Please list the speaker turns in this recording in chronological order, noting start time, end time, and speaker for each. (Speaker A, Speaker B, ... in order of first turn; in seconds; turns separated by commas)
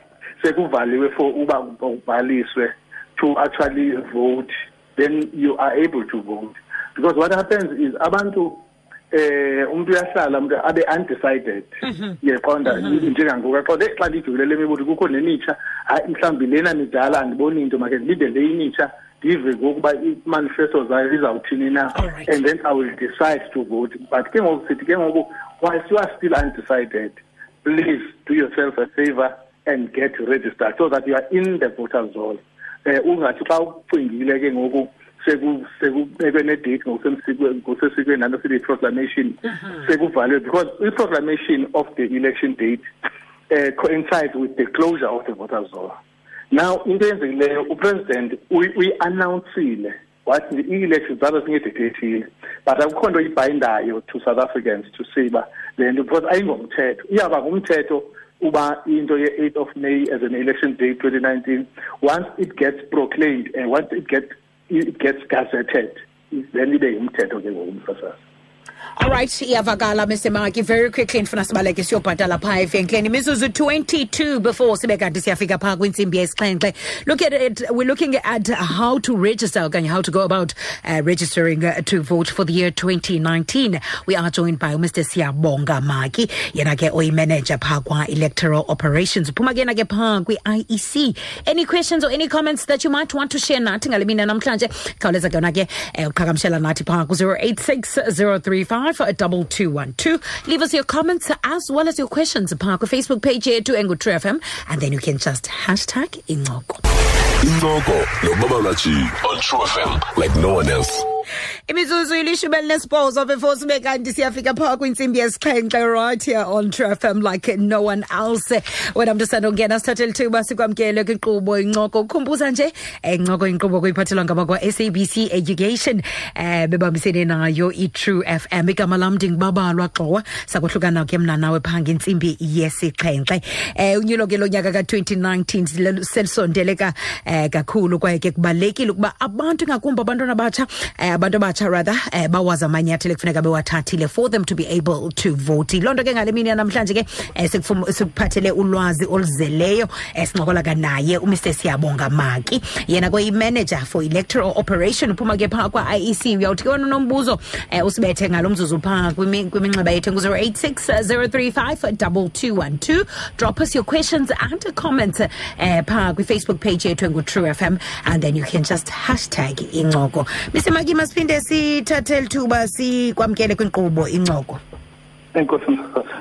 Speaker A: 0.4-42.8, Speaker B: 22.0-22.3, Speaker A: 43.5-46.0, Speaker A: 46.5-68.2, Speaker B: 69.0-106.8, Speaker C: 107.4-111.1, Speaker B: 111.7-174.6, Speaker A: 175.3-176.1